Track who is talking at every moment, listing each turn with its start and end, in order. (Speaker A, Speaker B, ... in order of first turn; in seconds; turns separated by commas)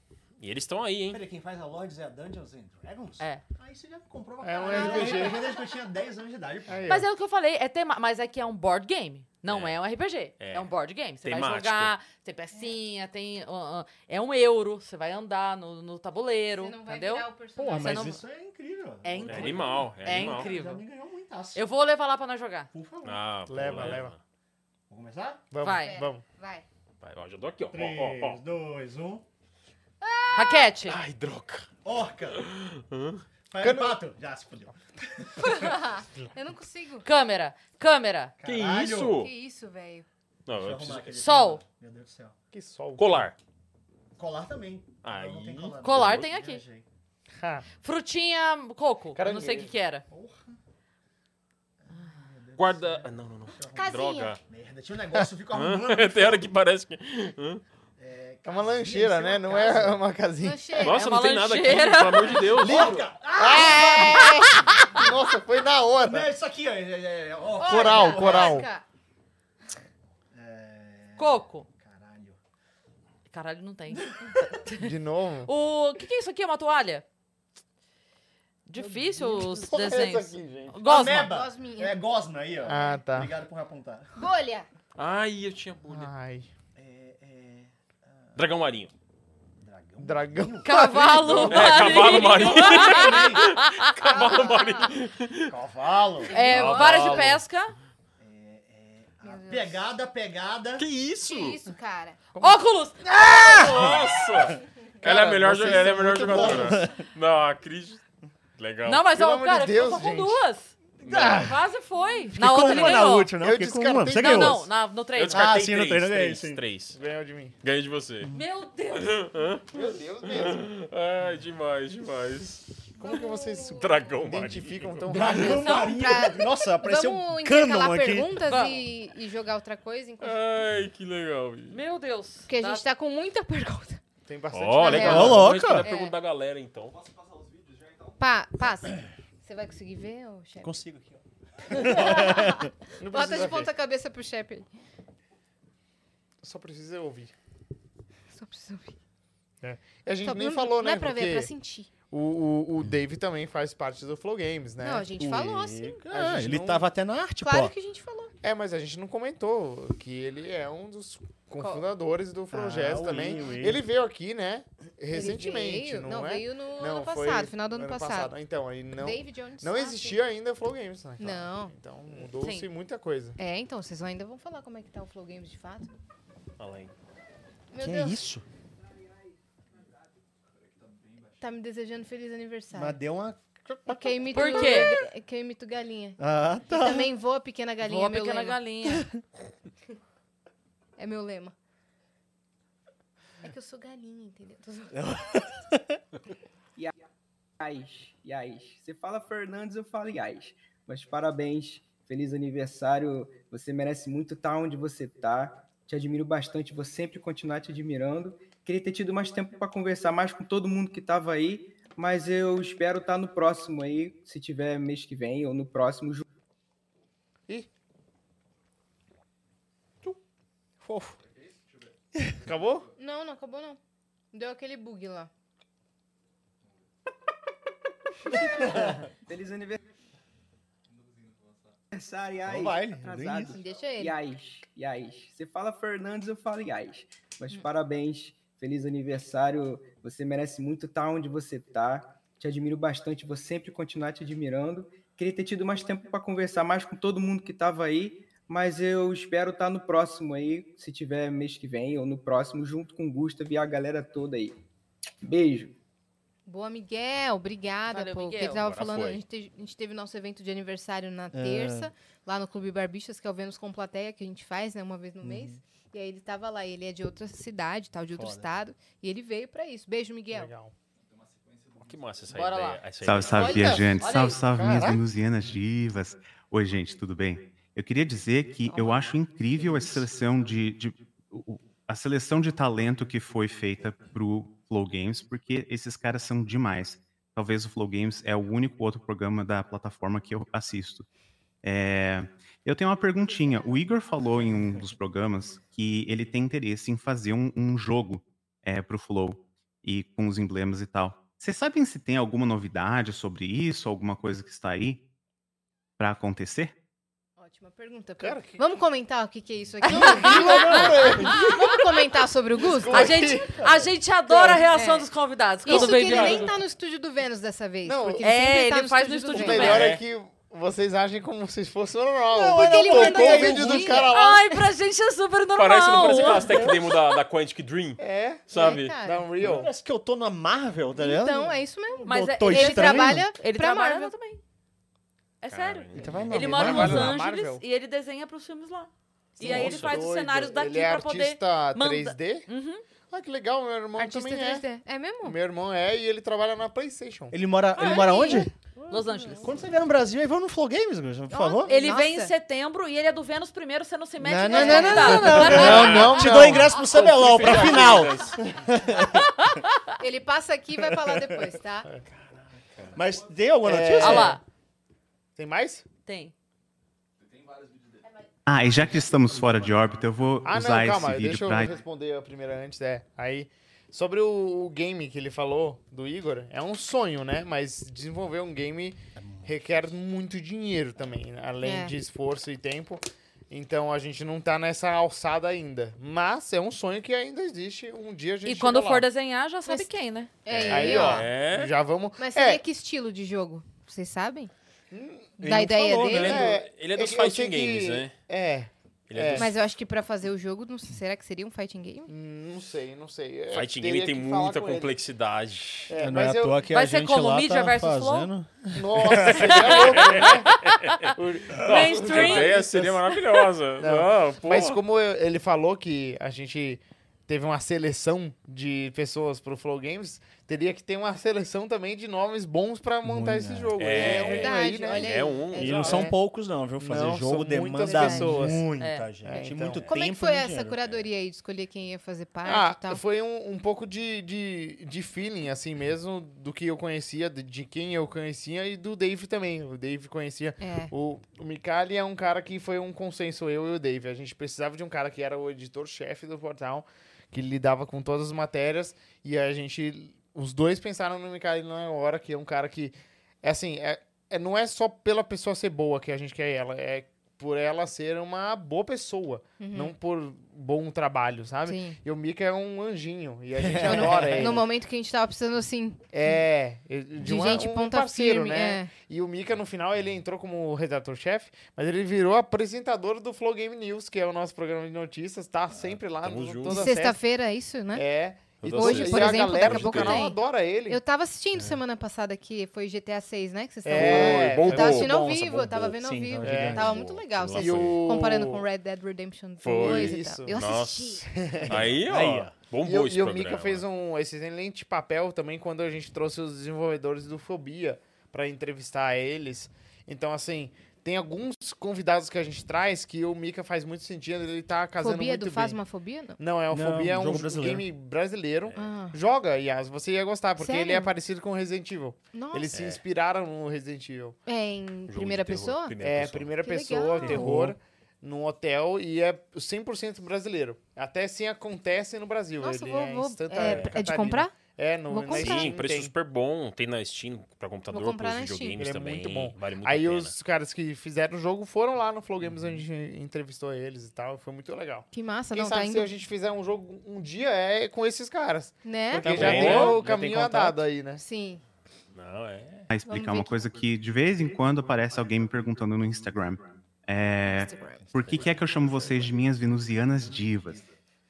Speaker A: 0.4-1.2, Speaker B: 1.1-6.9, Speaker C: 4.4-5.4, Speaker D: 4.7-5.1, Speaker E: 4.7-5.3, Speaker C: 6.7-7.1, Speaker D: 6.8-18.2, Speaker A: 9.4-9.8, Speaker A: 10.4-10.7, Speaker A: 11.2-11.9, Speaker E: 16.5-18.0, Speaker C: 17.6-18.0, Speaker B: 17.6-21.6, Speaker D: 19.0-20.8, Speaker A: 19.2-20.5, Speaker D: 21.5-22.7, Speaker B: 22.7-23.9, Speaker A: 23.0-24.2, Speaker C: 23.5-24.1, Speaker B: 24.9-25.4, Speaker C: 25.5-26.2, Speaker D: 25.6-26.0, Speaker E: 25.8-26.6, Speaker A: 27.0-28.4, Speaker B: 27.7-29.2, Speaker E: 30.0-30.7, Speaker D: 30.3-31.0, Speaker A: 30.9-31.7, Speaker B: 31.8-32.4, Speaker A: 32.3-33.2, Speaker B: 33.5-35.4, Speaker C: 33.6-34.0, Speaker E: 35.4-37.0, Speaker D: 37.0-38.3, Speaker B: 38.4-39.3, Speaker A: 38.4-39.3, Speaker E: 39.1-40.0, Speaker A: 40.5-41.2, Speaker B: 40.6-42.3, Speaker D: 41.2-41.6, Speaker C: 42.5-43.3, Speaker A: 43.0-43.4, Speaker B: 44.1-46.8, Speaker A: 45.0-46.3, Speaker D: 45.8-46.6, Speaker C: 47.4-47.6, Speaker D: 47.8-50.0, Speaker C: 49.1-49.7, Speaker B: 50.1-50.6, Speaker B: 51.8-56.5, Speaker A: 52.6-54.4, Speaker E: 53.7-54.4, Speaker A: 55.5-57.6, Speaker B: 58.0-60.0, Speaker C: 58.4-60.7, Speaker E: 60.4-61.0, Speaker A: 60.8-63.1, Speaker D: 60.8-62.5, Speaker B: 62.3-64.3, Speaker C: 62.6-64.2, Speaker E: 63.4-64.5, Speaker D: 63.6-65.0, Speaker C: 64.8-66.3, Speaker B: 66.0-68.6, Speaker E: 67.5-68.8, Speaker C: 67.6-68.7, Speaker B: 70.3-72.4, Speaker D: 71.2-71.7, Speaker D: 73.3-77.0, Speaker B: 74.0-74.3, Speaker C: 74.7-75.5, Speaker D: 78.7-81.3, Speaker B: 78.7-79.8, Speaker C: 79.4-80.7, Speaker B: 80.8-84.2, Speaker E: 81.2-82.0, Speaker E: 82.6-83.0, Speaker C: 82.7-83.3, Speaker E: 84.2-84.7, Speaker A: 85.0-86.1, Speaker C: 85.9-86.5, Speaker B: 86.8-88.4, Speaker A: 88.3-88.9, Speaker B: 89.6-92.0, Speaker C: 90.0-91.9, Speaker D: 90.6-93.9, Speaker A: 91.4-95.5, Speaker B: 92.6-93.4, Speaker E: 94.0-94.9, Speaker B: 95.4-96.3, Speaker D: 96.3-97.7, Speaker E: 96.3-96.8, Speaker A: 96.5-97.4, Speaker C: 96.5-97.4, Speaker B: 98.2-100.9, Speaker E: 99.2-99.8, Speaker A: 100.8-101.6, Speaker E: 101.2-102.2, Speaker C: 102.3-102.6, Speaker D: 102.4-103.0, Speaker B: 103.2-104.1, Speaker A: 103.3-108.0, Speaker C: 105.0-106.8, Speaker B: 105.6-107.0, Speaker A: 108.6-109.0, Speaker D: 108.8-113.3, Speaker C: 109.1-110.4, Speaker B: 111.0-111.6, Speaker A: 111.0-111.4, Speaker B: 112.3-114.7, Speaker C: 113.4-114.7, Speaker D: 114.2-115.5, Speaker A: 115.2-117.0, Speaker B: 115.3-116.6, Speaker C: 116.9-117.5, Speaker A: 117.6-118.3, Speaker D: 118.3-119.2, Speaker A: 118.9-122.7, Speaker C: 119.7-120.5, Speaker C: 123.0-125.6, Speaker E: 123.0-123.9, Speaker A: 123.8-125.6, Speaker B: 125.1-128.4, Speaker E: 125.2-130.5, Speaker D: 128.5-128.9, Speaker A: 130.2-131.8, Speaker D: 131.7-132.8, Speaker E: 132.5-134.0, Speaker C: 134.2-135.4, Speaker A: 134.5-137.0, Speaker E: 134.8-136.1, Speaker B: 135.0-135.9, Speaker E: 138.2-140.7, Speaker B: 140.6-142.7, Speaker E: 141.7-144.7, Speaker C: 143.0-143.7, Speaker C: 146.4-147.3, Speaker E: 148.3-149.0, Speaker C: 149.6-151.5, Speaker E: 150.2-151.9, Speaker C: 152.1-155.1, Speaker E: 154.8-156.1, Speaker B: 155.2-157.7, Speaker C: 156.1-156.8, Speaker E: 157.4-158.3, Speaker C: 158.4-173.4, Speaker E: 161.6-161.8, Speaker B: 162.5-163.8, Speaker E: 165.1-168.3, Speaker E: 168.9-170.2, Speaker E: 171.2-171.8, Speaker D: 172.4-172.7, Speaker E: 173.4-175.9, Speaker A: 176.6-176.9, Speaker E: 177.7-178.2, Speaker B: 177.8-178.4, Speaker E: 181.4-183.0, Speaker B: 182.7-184.8, Speaker E: 183.9-188.6, Speaker D: 184.3-185.0, Speaker B: 186.2-187.1, Speaker D: 187.8-189.1, Speaker E: 191.0-191.5, Speaker E: 193.4-195.0, Speaker B: 194.9-196.0, Speaker F: 197.6-216.2, Speaker B: 220.8-221.2, Speaker B: 222.1-222.4, Speaker C: 222.4-222.9, Speaker E: 223.0-223.8, Speaker E: 224.3-225.3, Speaker F: 228.4-229.8, Speaker B: 228.5-229.0, Speaker F: 231.9-254.6, Speaker B: 232.4-233.6, Speaker E: 233.5-234.2, Speaker F: 255.2-255.8, Speaker E: 256.4-270.5, Speaker D: 257.9-258.6, Speaker A: 258.6-259.2, Speaker B: 261.3-261.9, Speaker B: 265.2-265.6, Speaker B: 268.1-268.5, Speaker C: 270.3-270.7, Speaker A: 271.8-273.8, Speaker D: 272.3-274.4, Speaker G: 273.0-291.1, Speaker B: 274.5-275.0, Speaker G: 291.6-305.0, Speaker G: 306.0-306.7, Speaker E: 307.4-313.3, Speaker C: 308.2-308.6, Speaker D: 309.8-311.8, Speaker C: 309.9-311.8, Speaker C: 312.6-313.6, Speaker D: 312.9-316.5, Speaker C: 314.3-314.7, Speaker E: 314.7-315.1, Speaker E: 315.6-319.9, Speaker A: 315.8-316.5, Speaker C: 317.8-318.2, Speaker D: 318.2-319.9, Speaker C: 319.3-324.5, Speaker A: 319.7-320.0, Speaker B: 322.3-324.1, Speaker E: 322.5-324.1, Speaker D: 324.1-326.9, Speaker A: 325.6-328.9, Speaker B: 326.2-326.8, Speaker C: 328.0-329.7, Speaker E: 328.5-329.3, Speaker B: 329.4-333.3, Speaker E: 330.9-334.1, Speaker D: 332.0-334.4, Speaker D: 335.4-342.8, Speaker A: 335.5-336.3, Speaker B: 335.9-337.1, Speaker C: 336.2-337.6, Speaker C: 339.4-342.5, Speaker A: 339.5-340.0, Speaker C: 343.1-344.6, Speaker E: 344.0-345.4, Speaker C: 345.2-347.4, Speaker B: 347.3-348.5, Speaker D: 347.8-349.5, Speaker E: 347.8-348.4, Speaker B: 349.3-351.7, Speaker E: 351.3-352.3, Speaker D: 351.6-355.9, Speaker B: 354.2-359.5, Speaker E: 354.5-355.8, Speaker C: 355.3-356.9, Speaker A: 355.5-358.4, Speaker D: 359.1-359.9, Speaker E: 360.0-361.9, Speaker B: 360.9-361.5, Speaker B: 362.9-364.4, Speaker C: 363.6-364.4, Speaker D: 364.0-364.4, Speaker C: 365.4-365.9, Speaker D: 366.1-366.3, Speaker G: 368.4-371.8, Speaker C: 370.4-389.1, Speaker B: 379.1-379.8, Speaker E: 381.6-381.9, Speaker D: 388.4-390.3, Speaker E: 389.7-391.3, Speaker A: 390.5-391.7, Speaker C: 390.6-392.6, Speaker E: 392.2-394.5, Speaker C: 394.9-395.4, Speaker B: 395.4-396.4, Speaker E: 395.4-396.4, Speaker A: 396.1-398.1, Speaker C: 396.1-399.5, Speaker A: 399.1-399.5, Speaker E: 399.4-402.1, Speaker C: 402.1-404.9, Speaker A: 403.5-405.9, Speaker C: 405.9-406.6, Speaker B: 406.0-409.5, Speaker D: 406.7-408.3, Speaker C: 408.7-410.6, Speaker D: 409.4-411.0, Speaker A: 409.7-414.8, Speaker C: 411.1-413.0, Speaker D: 411.6-412.6, Speaker C: 413.8-426.1, Speaker B: 423.0-424.0, Speaker A: 423.8-426.1, Speaker E: 424.0-426.0, Speaker B: 425.5-430.8, Speaker C: 426.8-428.7, Speaker E: 427.8-428.5, Speaker D: 428.8-429.1, Speaker C: 429.2-429.9, Speaker E: 429.9-433.0, Speaker C: 432.4-464.7, Speaker E: 440.6-440.9, Speaker E: 459.6-459.9, Speaker E: 461.6-462.0, Speaker B: 463.6-464.6, Speaker E: 463.8-466.3, Speaker C: 466.1-477.2, Speaker E: 467.2-468.9, Speaker A: 476.2-476.9, Speaker E: 476.7-478.0, Speaker C: 477.9-481.0, Speaker A: 478.6-480.2, Speaker E: 478.7-491.3, Speaker C: 483.8-485.7, Speaker A: 483.9-485.3, Speaker B: 485.9-487.0, Speaker C: 486.4-486.9, Speaker A: 486.8-488.0, Speaker C: 487.5-488.6, Speaker A: 489.6-493.8, Speaker C: 489.8-490.6, Speaker C: 491.2-491.9, Speaker B: 491.7-492.5, Speaker C: 492.8-505.8, Speaker E: 505.0-506.4, Speaker C: 506.4-514.4, Speaker B: 506.7-507.9, Speaker E: 508.8-509.2, Speaker E: 510.6-511.1, Speaker E: 512.3-512.8, Speaker A: 512.7-513.0, Speaker E: 514.5-515.9, Speaker A: 515.1-516.5, Speaker C: 516.0-526.1, Speaker E: 516.6-517.6, Speaker B: 517.2-517.7, Speaker E: 522.6-524.6, Speaker A: 523.6-523.9, Speaker E: 525.1-525.7, Speaker A: 525.3-530.4, Speaker E: 527.9-528.8, Speaker C: 528.8-541.2, Speaker A: 532.4-532.8, Speaker E: 535.1-536.1, Speaker E: 538.8-539.9, Speaker A: 539.2-540.2, Speaker B: 539.2-540.8, Speaker E: 541.2-541.6, Speaker A: 542.1-542.9, Speaker G: 542.9-550.9, Speaker E: 543.1-543.5, Speaker E: 547.5-548.0, Speaker A: 548.3-548.8